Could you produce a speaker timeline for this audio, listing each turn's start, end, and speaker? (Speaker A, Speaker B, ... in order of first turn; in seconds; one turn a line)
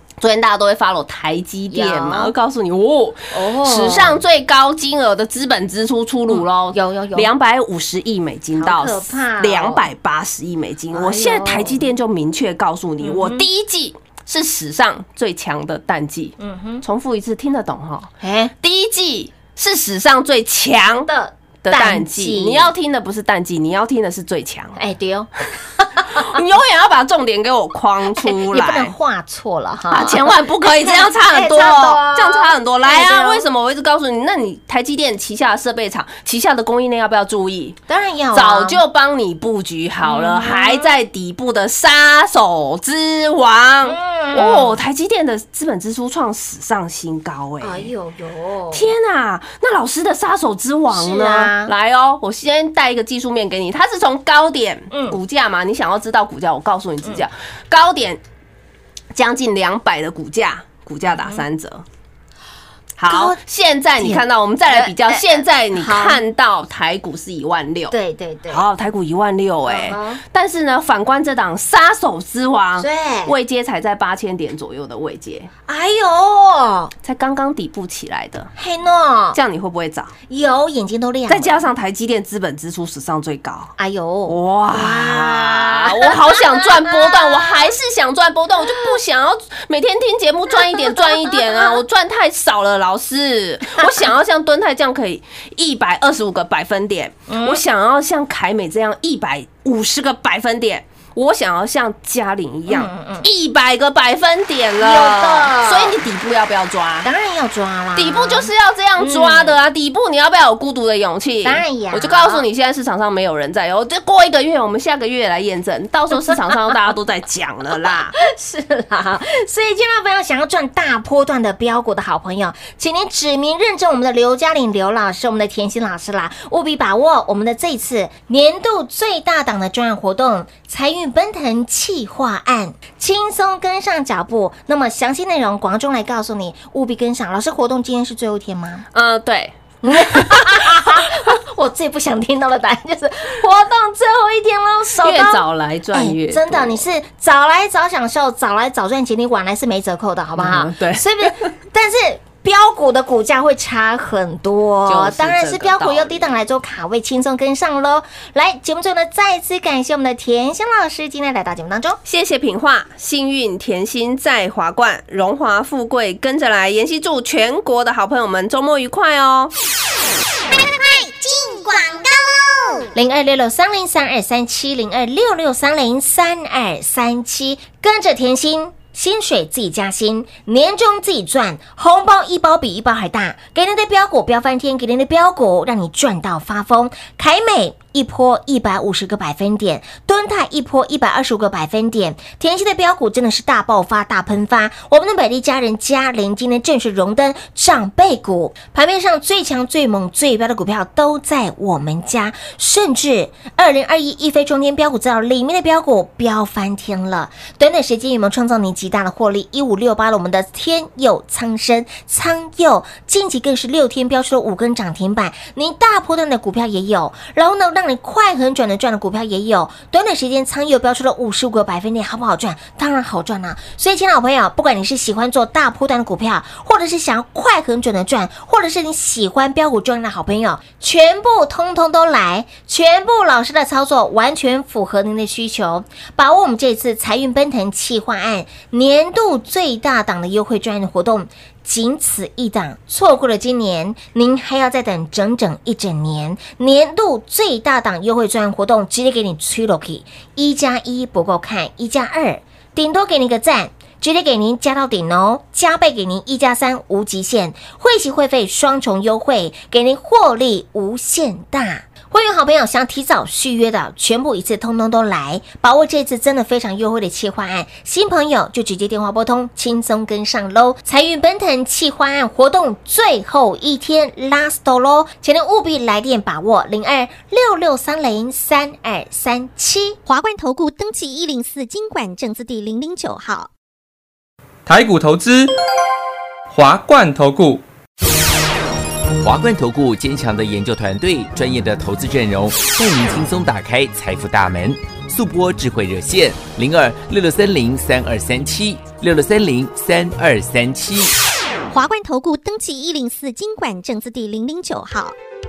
Speaker A: 0.2-18.1
Speaker B: 1.7-2.3
Speaker B: 3.3-4.2
Speaker B: 6.3-7.3
Speaker B: 8.6-9.9
Speaker B: 10.9-11.8
Speaker B: 13.0-13.4
Speaker B: 16.4-16.9
Speaker B: 18.2-18.5
Speaker A: 18.6-21.1
Speaker B: 21.0-22.7
Speaker A: 21.6-24.8
Speaker B: 24.8-26.4
Speaker A: 26.0-28.9
Speaker B: 28.1-33.5
Speaker A: 29.9-37.8
Speaker B: 37.9-38.8
Speaker A: 38.3-47.9
Speaker B: 40.0-41.0
Speaker B: 43.9-44.8
Speaker B: 47.6-48.9
Speaker A: 48.7-58.2
Speaker B: 50.9-51.7
Speaker B: 54.9-55.2
Speaker A: 59.1-61.8
Speaker A: 63.0-68.0
Speaker B: 63.1-63.4
Speaker B: 64.0-66.2
Speaker B: 67.9-68.7
Speaker A: 68.5-75.5
Speaker B: 69.7-70.2
Speaker B: 72.8-73.4
Speaker B: 75.7-76.9
Speaker A: 77.0-78.5
Speaker B: 78.6-79.4
Speaker A: 79.3-80.1
Speaker B: 80.3-81.6
Speaker A: 81.3-83.7
Speaker B: 83.8-87.7
Speaker A: 84.3-107.1
Speaker B: 88.7-88.9
Speaker B: 90.5-91.8
Speaker B: 93.8-94.1
Speaker B: 97.3-97.6
Speaker B: 102.7-103.3
Speaker B: 104.8-106.0
Speaker B: 107.0-109.6
Speaker A: 108.0-118.2
Speaker B: 111.4-112.4
Speaker B: 116.1-116.4
Speaker B: 118.1-138.8
Speaker A: 138.9-139.6
Speaker B: 139.8-162.0
Speaker A: 145.0-146.8
Speaker A: 150.4-151.5
Speaker A: 154.9-156.3
Speaker A: 162.1-169.5
Speaker C: 170.6-172.8
Speaker B: 172.9-280.0
Speaker C: 280.1-283.5
Speaker D: 284.6-285.5
Speaker D: 286.5-287.6
Speaker E: 289.2-301.1
Speaker C: 301.7-305.1